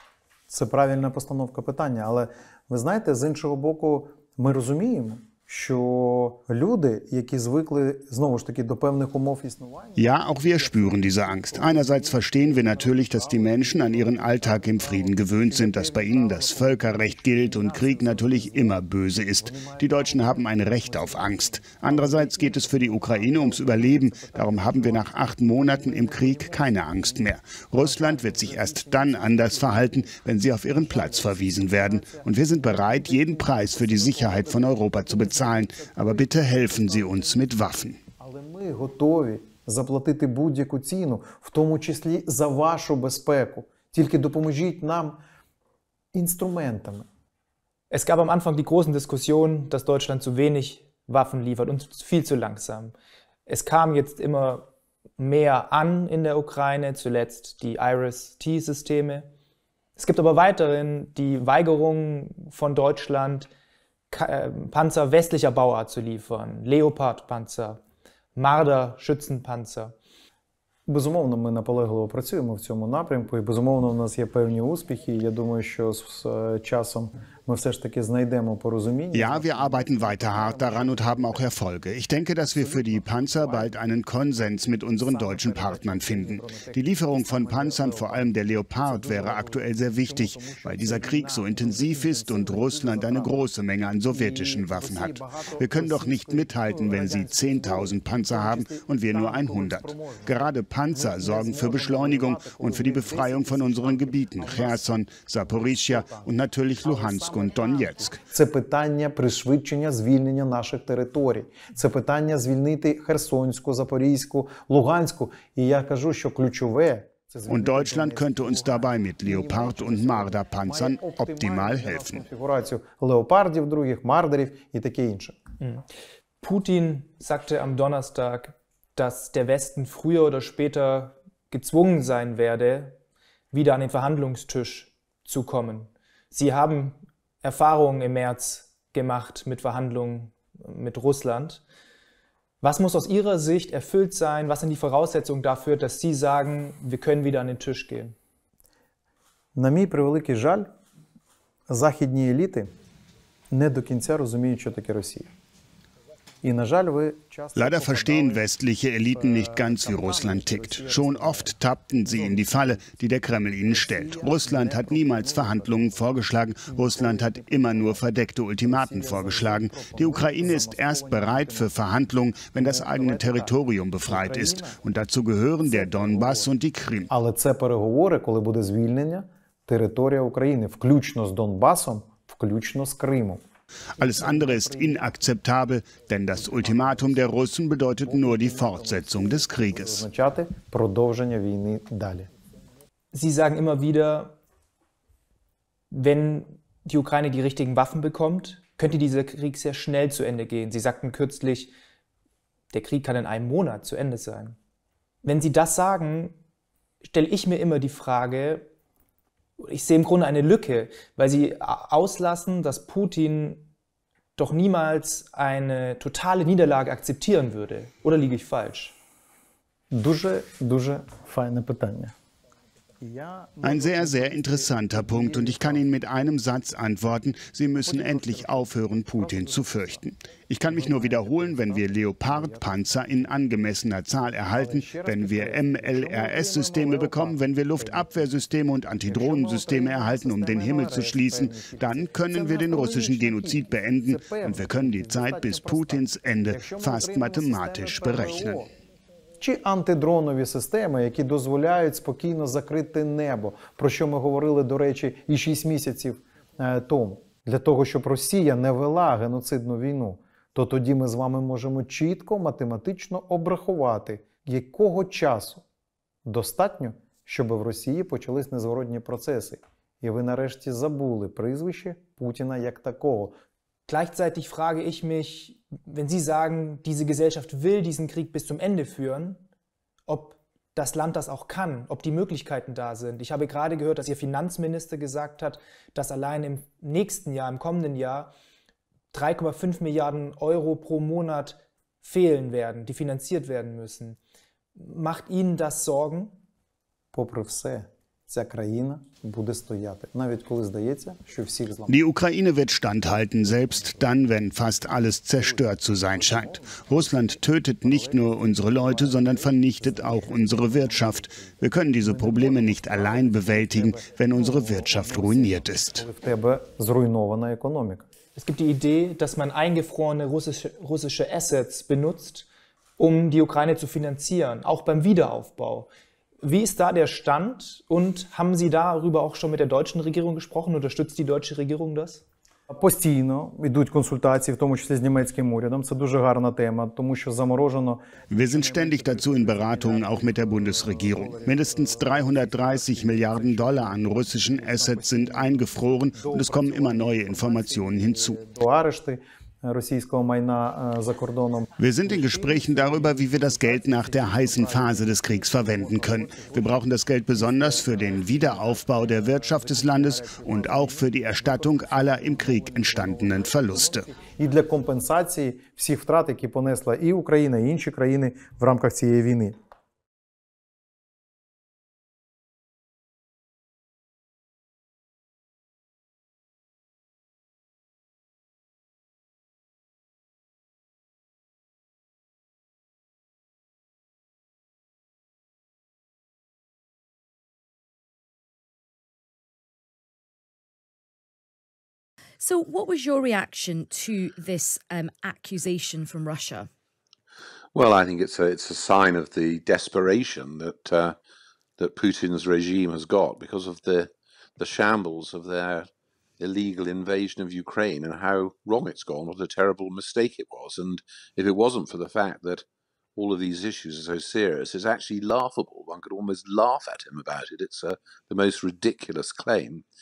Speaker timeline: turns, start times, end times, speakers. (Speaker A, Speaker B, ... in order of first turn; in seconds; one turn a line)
Speaker A: 0.5-10.0
Speaker B: 9.9-38.0
Speaker A: 38.2-45.2
Speaker A: 46.1-47.0
Speaker C: 47.9-52.9
Speaker C: 53.5-54.7
Speaker C: 55.2-59.3
Speaker C: 60.0-63.5
Speaker C: 64.1-67.8
Speaker C: 68.3-69.9
Speaker A: 70.9-79.4
Speaker B: 79.1-108.2
Speaker A: 85.3-86.8
Speaker A: 90.4-93.3
Speaker A: 94.1-96.1
Speaker A: 99.4-99.7
Speaker A: 108.3-125.4
Speaker B: 117.5-122.2
Speaker C: 126.4-133.0
Speaker C: 133.5-141.6
Speaker C: 142.6-148.2
Speaker A: 149.5-150.7
Speaker A: 151.7-152.7
Speaker A: 153.5-155.3
Speaker A: 156.4-158.4
Speaker B: 157.5-177.1
Speaker A: 159.2-161.5
Speaker A: 163.9-165.3
Speaker A: 166.8-167.7
Speaker A: 168.7-171.7
Speaker A: 172.6-173.5
Speaker A: 174.0-174.8
Speaker A: 175.8-176.5
Speaker A: 177.1-183.4
Speaker B: 184.0-190.0
Speaker A: 184.2-184.9
Speaker A: 188.1-192.3
Speaker C: 193.1-194.4
Speaker C: 195.9-201.7
Speaker C: 202.7-204.6
Speaker C: 205.2-206.4
Speaker C: 207.0-208.7
Speaker C: 209.6-213.7
Speaker C: 214.4-218.9
Speaker A: 219.9-222.1
Speaker A: 223.0-225.8
Speaker B: 223.6-248.6
Speaker A: 230.8-231.7
Speaker A: 232.3-232.6
Speaker A: 234.6-238.1
Speaker A: 239.1-248.7
Speaker A: 249.4-265.6
Speaker A: 266.2-273.4
Speaker C: 273.9-279.4
Speaker C: 280.1-288.3
Speaker C: 289.1-294.2
Speaker C: 294.8-296.4
Speaker A: 297.1-301.9
Speaker B: 301.9-316.0
Speaker A: 312.1-318.0
Speaker C: 318.4-325.9
Speaker C: 326.4-332.2
Speaker A: 332.7-338.2
Speaker B: 338.3-348.4
Speaker A: 341.0-341.3
Speaker A: 346.2-347.0
Speaker A: 348.1-351.7
Speaker B: 351.8-364.1
Speaker A: 364.4-369.6
Speaker D: 392.4-396.7
Speaker E: 397.7-401.1
Speaker E: 401.8-405.9
Speaker E: 406.4-412.6
Speaker E: 413.1-419.8